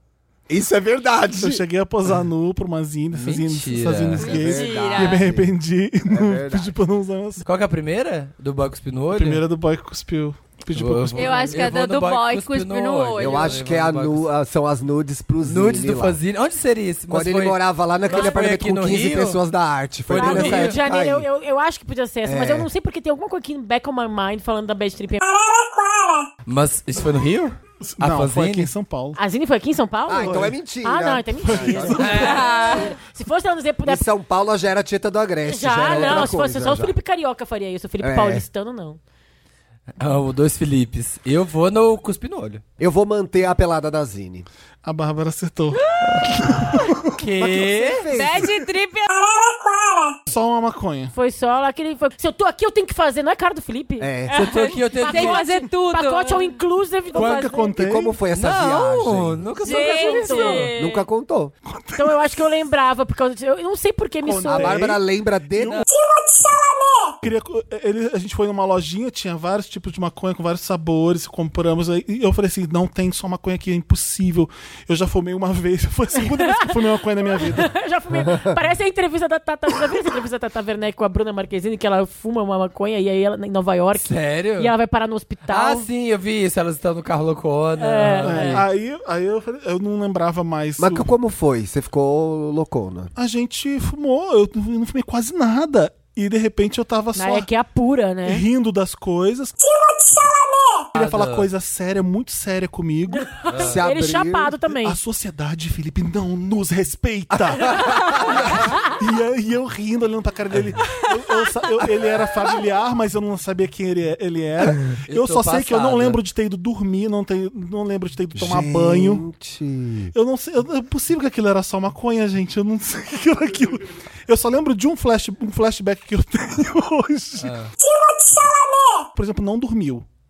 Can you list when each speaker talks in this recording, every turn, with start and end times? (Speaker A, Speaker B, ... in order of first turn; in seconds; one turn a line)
Speaker A: 0.5-1.6
Speaker B: 1.4-7.4
Speaker C: 3.1-4.3
Speaker D: 4.2-5.2
Speaker A: 4.2-5.5
Speaker A: 6.1-6.8
Speaker C: 7.4-9.4
Speaker B: 9.1-11.7
Speaker C: 10.7-14.3
Speaker D: 11.2-13.6
Speaker A: 13.2-16.2
Speaker C: 15.4-19.4
Speaker A: 17.1-21.3
Speaker C: 20.1-20.8
Speaker E: 20.1-25.2
Speaker A: 22.2-22.7
Speaker C: 26.5-28.7
Speaker B: 27.9-29.2
Speaker E: 29.2-34.1
Speaker A: 30.1-32.1
Speaker B: 30.2-30.5
Speaker B: 31.4-32.9
Speaker C: 32.0-32.7
Speaker D: 32.2-32.9
Speaker A: 33.9-37.0
Speaker E: 35.4-39.0
Speaker A: 38.0-38.5
Speaker C: 40.0-42.6
Speaker A: 42.8-44.5
Speaker B: 44.8-47.0
Speaker C: 47.2-48.1
Speaker A: 47.4-48.5
Speaker D: 48.1-49.6
Speaker B: 50.3-51.1
Speaker E: 51.1-54.1
Speaker A: 54.0-54.4
Speaker D: 54.3-56.5
Speaker C: 54.3-55.4
Speaker E: 55.0-57.7
Speaker B: 57.1-58.2
Speaker A: 57.8-59.5
Speaker C: 58.4-60.7
Speaker D: 59.6-61.0
Speaker E: 59.6-60.7
Speaker A: 60.8-61.5
Speaker B: 61.7-62.4
Speaker E: 62.0-64.8
Speaker B: 64.2-65.0
Speaker A: 64.5-65.9
Speaker B: 65.6-65.8
Speaker B: 67.2-77.8
Speaker E: 77.3-85.9
Speaker C: 84.0-84.7
Speaker C: 85.5-88.7
Speaker E: 87.8-88.6
Speaker B: 88.2-91.1
Speaker A: 90.8-93.1
Speaker B: 93.2-97.5
Speaker E: 97.2-98.5
Speaker B: 98.3-99.6
Speaker B: 100.9-103.5
Speaker C: 101.0-101.5
Speaker E: 103.3-105.0
Speaker C: 103.5-103.8
Speaker A: 103.5-104.5
Speaker B: 104.8-119.2
Speaker A: 107.3-108.5
Speaker C: 115.1-116.2
Speaker A: 118.3-120.1
Speaker B: 120.1-127.5
Speaker C: 127.4-127.7
Speaker B: 129.2-130.1